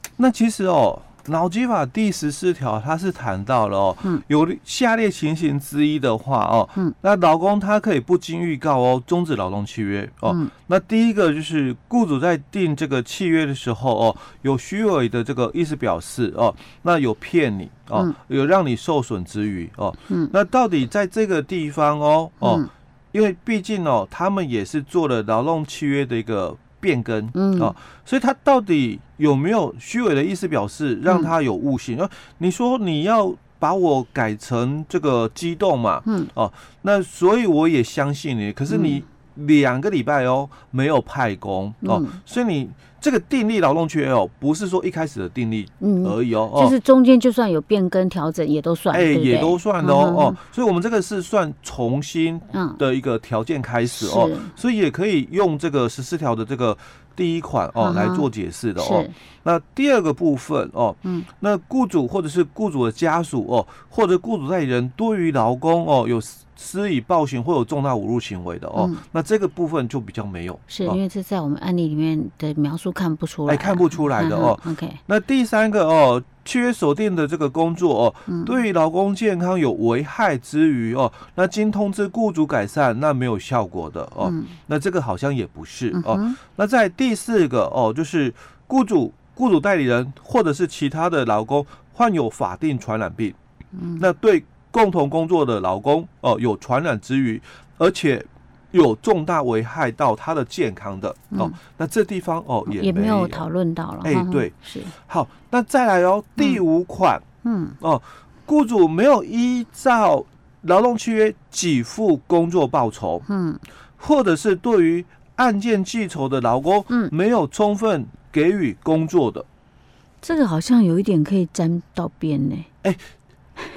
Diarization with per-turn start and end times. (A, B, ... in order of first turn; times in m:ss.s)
0:00.2-0:46.8 A
0:22.4-0:22.7 B
0:27.3-0:27.7 B
0:31.1-0:31.3 B
0:36.0-0:36.3 B
0:38.7-0:39.0 B
0:41.8-0:42.2 B
0:45.8-0:50.4 B
0:48.9-1:11.0 A
0:52.5-0:52.8 B
0:53.9-0:54.5 B
0:57.8-0:59.1 B
1:10.7-1:15.0 B
1:13.5-1:33.4 A
1:24.2-1:24.6 B
1:25.9-1:26.4 B
1:33.7-1:34.0 B
1:34.0-1:43.4 A
1:42.7-1:44.9 B
1:44.0-1:47.2 A
1:47.4-1:47.8 B
1:47.8-1:53.2 A
1:53.3-1:53.6 B
1:54.0-1:59.4 A
2:00.2-2:02.7 B